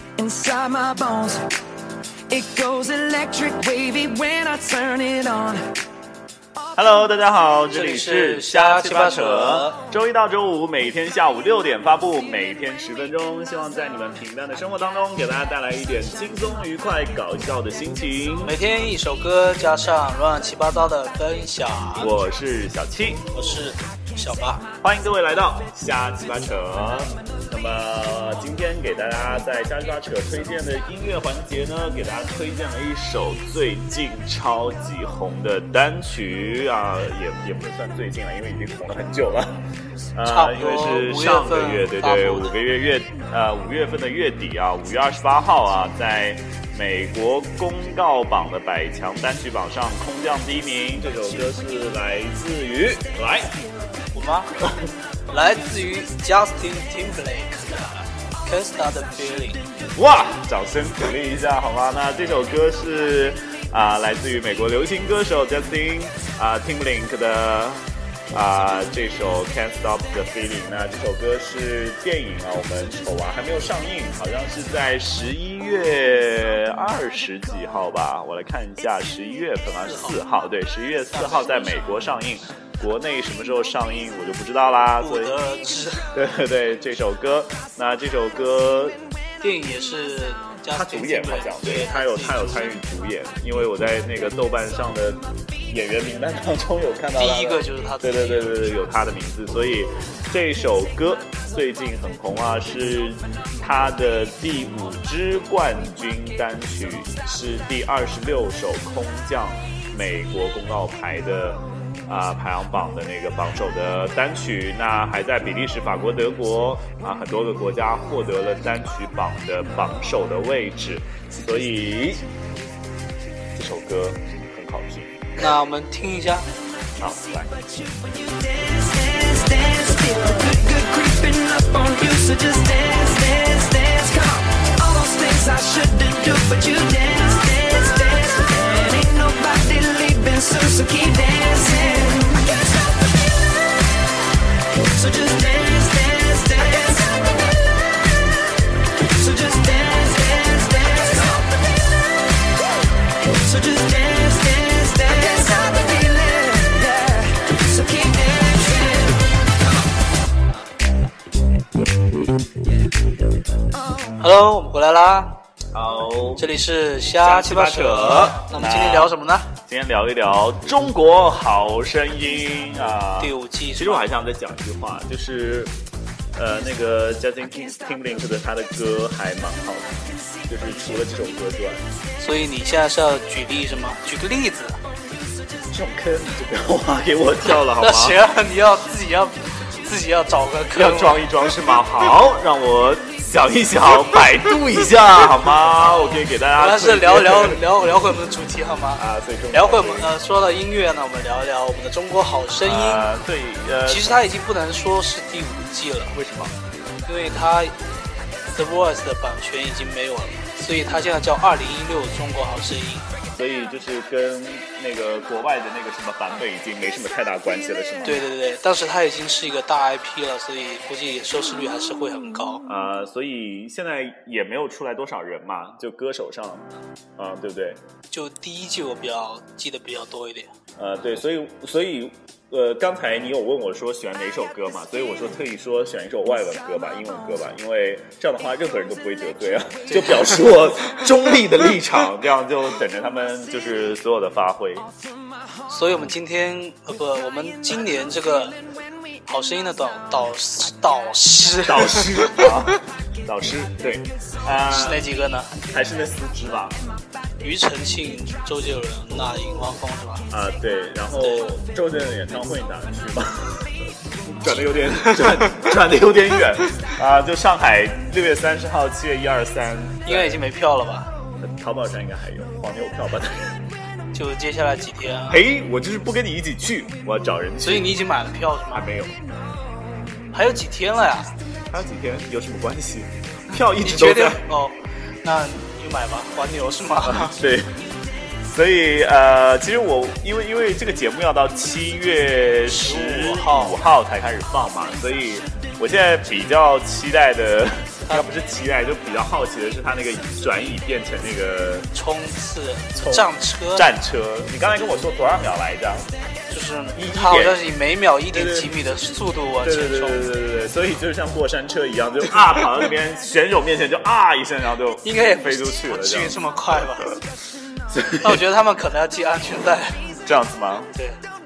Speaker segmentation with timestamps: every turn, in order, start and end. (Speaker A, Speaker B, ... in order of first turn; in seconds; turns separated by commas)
Speaker A: 0.2-1.5, Speaker A: 2.3-5.7, Speaker B: 6.7-18.6, Speaker C: 7.7-9.8, Speaker C: 18.4-22.1, Speaker B: 22.0-23.3, Speaker C: 23.3-24.7, Speaker B: 24.8-39.6, Speaker B: 40.1-53.5, Speaker C: 40.2-42.6, Speaker C: 54.1-54.5, Speaker C: 55.3-59.6, Speaker B: 59.9-85.3, Speaker C: 79.8-80.2, Speaker C: 81.1-81.8, Speaker C: 85.0-86.1, Speaker B: 86.1-89.0, Speaker C: 89.4-92.7, Speaker B: 90.7-122.3, Speaker C: 97.2-98.7, Speaker B: 123.5-125.4, Speaker C: 125.4-126.5, Speaker B: 127.0-127.5, Speaker A: 127.4-142.8, Speaker A: 144.8-147.4, Speaker A: 148.9-151.8, Speaker A: 153.2-159.2, Speaker C: 164.2-165.4, Speaker B: 165.7-166.5, Speaker C: 166.4-169.5, Speaker B: 167.2-175.8, Speaker C: 173.2-174.1, Speaker B: 176.3-181.8, Speaker C: 182.2-184.8, Speaker B: 185.7-188.2, Speaker C: 187.4-191.3, Speaker B: 190.7-197.6, Speaker C: 195.7-203.1, Speaker B: 198.9-200.1, Speaker B: 202.6-204.2, Speaker C: 203.8-206.2, Speaker B: 206.1-206.6, Speaker C: 207.1-207.8, Speaker C: 208.5-213.1, Speaker B: 213.3-218.2, Speaker C: 218.0-222.6, Speaker B: 222.7-227.8, Speaker C: 228.1-230.5, Speaker B: 230.8-244.9, Speaker C: 239.9-240.2, Speaker C: 245.7-248.6, Speaker C: 249.2-252.4, Speaker B: 251.6-255.1, Speaker C: 254.7-255.5, Speaker B: 255.6-256.8, Speaker C: 257.4-260.3, Speaker B: 260.3-270.4, Speaker C: 270.1-271.1, Speaker B: 271.4-273.5, Speaker C: 274.1-275.4, Speaker B: 275.3-278.0, Speaker C: 277.6-278.9, Speaker B: 278.7-279.2, Speaker C: 280.3-281.3, Speaker B: 281.7-284.4, Speaker C: 283.8-287.4, Speaker B: 287.0-287.8, Speaker B: 288.5-301.9, Speaker C: 292.7-293.8, Speaker C: 301.9-303.9, Speaker B: 302.9-306.1, Speaker C: 306.5-310.3, Speaker B: 306.9-307.6, Speaker B: 308.3-308.7, Speaker B: 309.6-316.4, Speaker C: 315.0-317.2, Speaker B: 317.9-318.4, Speaker C: 318.2-320.2, Speaker B: 320.2-320.9, Speaker C: 320.9-321.2